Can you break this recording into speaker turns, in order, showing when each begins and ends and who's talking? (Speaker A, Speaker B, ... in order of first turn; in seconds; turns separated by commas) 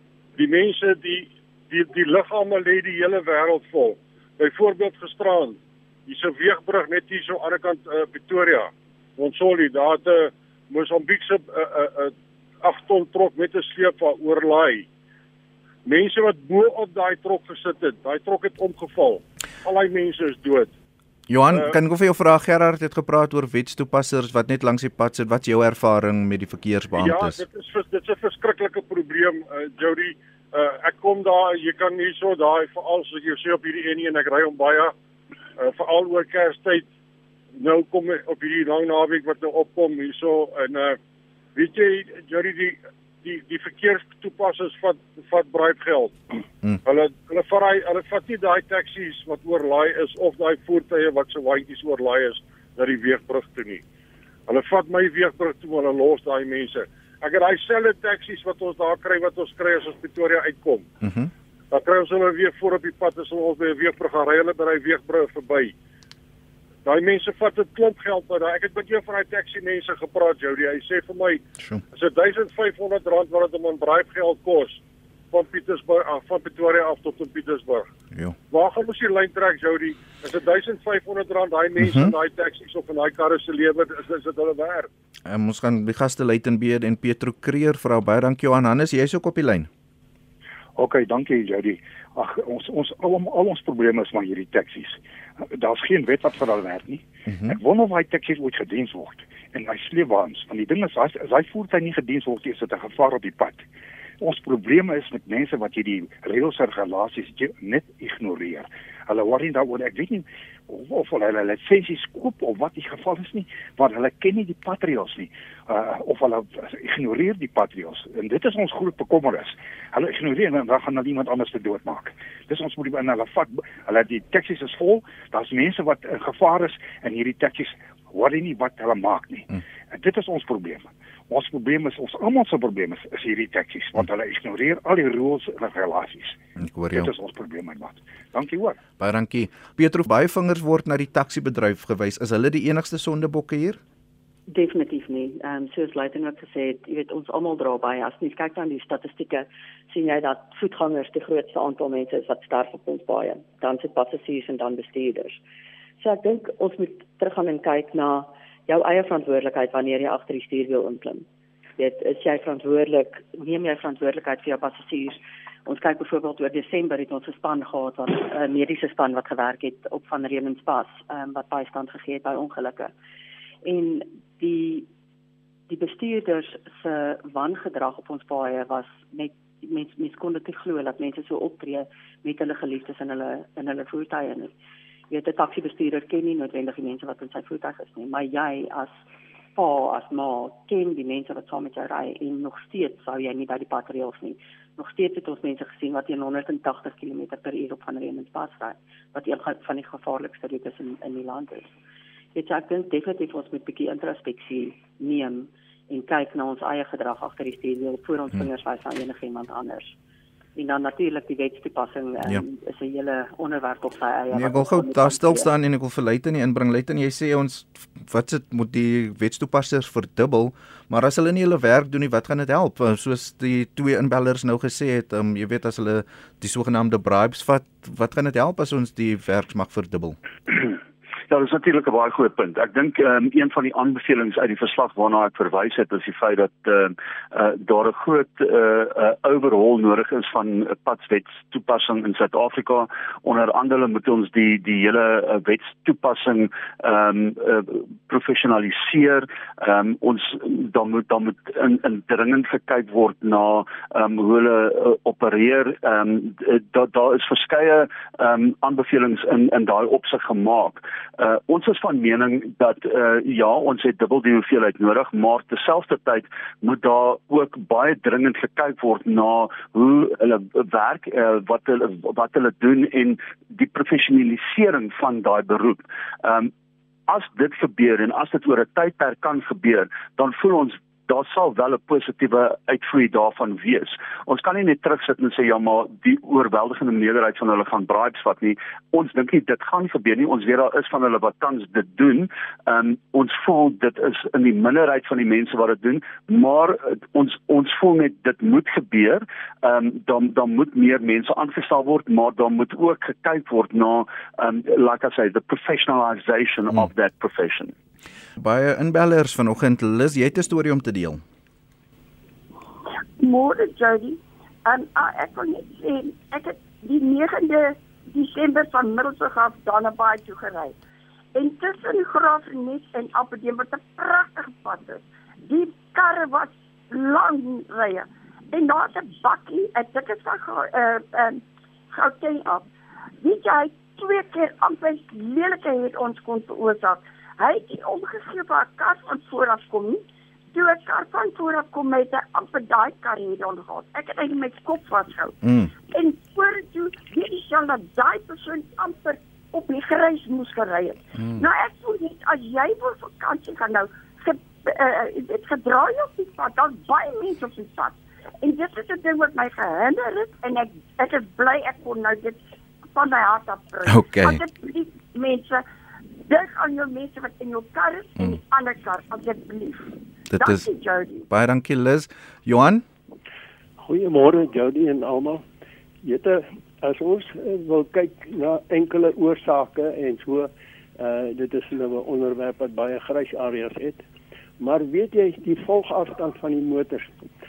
Speaker A: 0.4-14.9, Speaker A: 15.8-20.7, Speaker B: 21.3-27.4, Speaker A: 26.9-34.9, Speaker A: 35.6-36.9, Speaker A: 37.6-41.0, Speaker A: 41.5-53.8, Speaker A: 54.5-60.9, Speaker B: 61.0-61.3, Speaker A: 61.7-65.7, Speaker A: 66.8-77.9, Speaker A: 78.5-84.9, Speaker B: 81.8-82.1, Speaker B: 85.3-89.7, Speaker C: 90.8-103.7, Speaker B: 97.3-97.5, Speaker C: 104.2-136.4, Speaker B: 136.6-137.1, Speaker C: 136.9-138.8, Speaker B: 139.0-143.8, Speaker D: 144.5-155.4, Speaker D: 156.0-161.2, Speaker D: 161.8-172.9, Speaker D: 173.6-174.9, Speaker D: 175.7-184.5, Speaker D: 185.1-189.0, Speaker D: 189.6-201.7, Speaker D: 202.3-209.9, Speaker D: 210.6-215.5, Speaker B: 214.3-230.2, Speaker E: 231.3-276.5, Speaker E: 277.1-307.7, Speaker B: 308.4-311.2, Speaker F: 313.2-320.8, Speaker F: 321.4-332.7, Speaker F: 333.2-345.4, Speaker B: 345.4-345.7, Speaker F: 345.9-365.6, Speaker B: 351.2-351.5, Speaker B: 363.9-364.4, Speaker F: 366.3-371.2, Speaker B: 370.3-370.7, Speaker B: 371.3-372.9, Speaker G: 373.8-375.4, Speaker G: 376.0-384.0, Speaker G: 384.6-387.1